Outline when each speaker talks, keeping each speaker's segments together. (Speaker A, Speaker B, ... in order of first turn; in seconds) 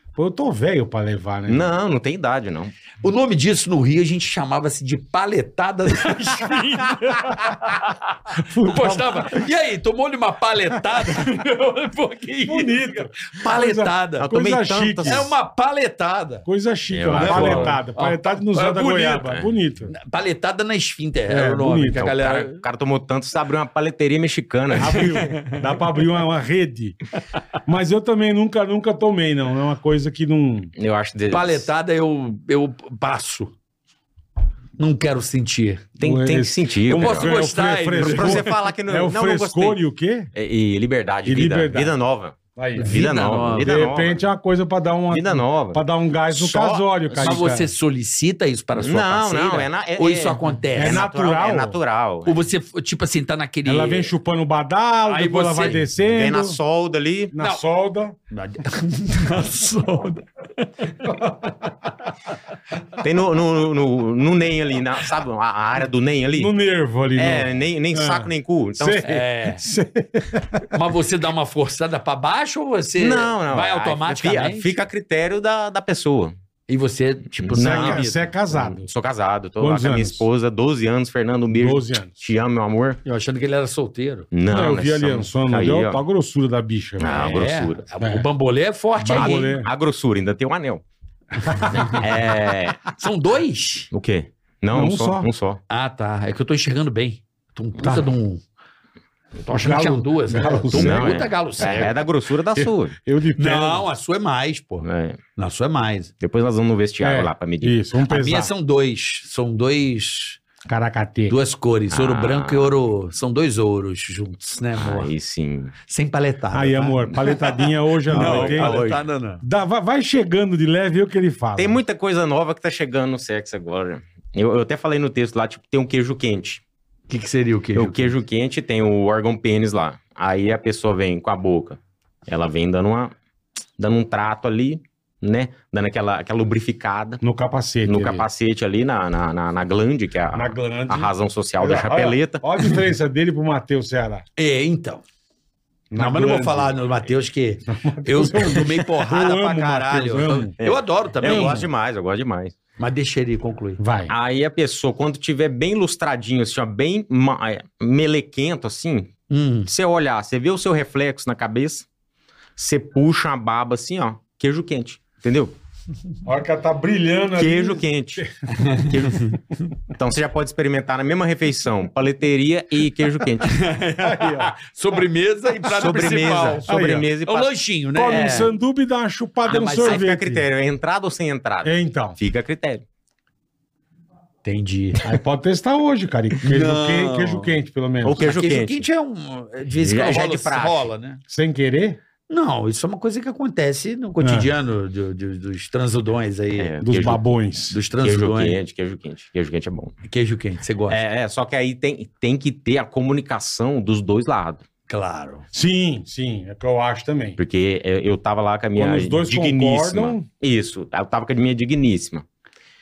Speaker A: 0.1-1.7, 6.6-7.6, 8.4-9.3, 12.4-15.3, 16.5-19.9, 21.3-22.1, 24.8-27.0, 27.6-30.7, 36.0-40.3, 41.2-41.9, 42.6-43.0, 43.6-47.7, 50.8-51.8, 53.6-56.6, 57.3-58.2, 61.0-61.6, 66.4-70.8, 77.5-78.9, 79.6-80.2, 81.5-82.1, 84.5-87.3, 88.0-88.3, 89.0-89.7, 91.4-92.0, 94.7-95.3, 97.8-98.1, 99.5-101.2, 102.6-103.9, 107.0-108.5, 110.6-111.3, 116.5-118.8, 119.4-121.8, 137.2-138.3, 140.3-144.2, 145.9-146.7, 147.7-150.5, 151.2-151.6, 153.8-154.1, 166.2-168.6, 174.0-174.5, 176.7-177.1, 177.9-180.4, 181.6-182.2, 185.0-188.2, 191.3-192.0, 194.2-194.5, 196.8-197.8, 205.5-207.4, 208.8-210.3
Speaker B: 1.5-2.7, 14.2-15.3, 16.9-17.8, 22.0-25.2, 30.8-31.7, 36.0-37.4, 38.0-39.8, 40.3-44.2, 45.1-47.5, 48.8-52.4, 56.0-57.4, 63.0-66.5, 67.2-69.2, 73.0-76.3, 77.4-83.0, 84.3-86.0, 87.0-87.8, 89.1-90.8, 91.7-92.9, 93.9-95.6, 100.7-103.0, 104.8-105.2, 106.2-107.8, 111.9-112.7, 114.8-115.8, 118.1-119.0, 121.6-126.6, 127.8-133.1, 133.8-137.2, 137.9-142.4, 150.6-152.6, 154.1-159.1, 159.7-161.8, 162.6-165.5, 167.4-169.4, 169.9-173.6, 175.7-177.5, 178.1-178.5, 179.5-182.8, 188.0-188.9, 189.8-190.9, 196.6-197.3, 198.0-199.9, 200.9-204.6, 207.4-212.2
Speaker C: 3.0-14.2, 15.0-16.5, 17.1-19.3, 19.9-22.6, 25.1-25.6, 31.3-33.5, 34.8-35.9, 36.9-38.5, 42.8-43.7, 47.2-51.1, 52.2-54.1, 55.1-55.9, 58.3-61.1, 69.1-69.6, 70.7-74.7, 76.7-78.2, 83.0-84.3, 87.0-89.5, 91.5-92.0, 93.0-93.9, 95.7-98.4, 99.4-102.0, 103.4-106.1, 108.1-110.4, 111.3-115.1, 115.9-119.4, 127.1-128.1, 144.4-145.0, 145.9-151.7, 152.8-153.8, 159.3-159.7, 168.5-169.3, 173.4-176.7, 177.3-178.5, 179.5-180.1, 184.4-185.0, 186.4-187.6, 188.2-191.2, 192.3-196.8, 197.7-198.6, 200.1-201.0, 204.9-205.4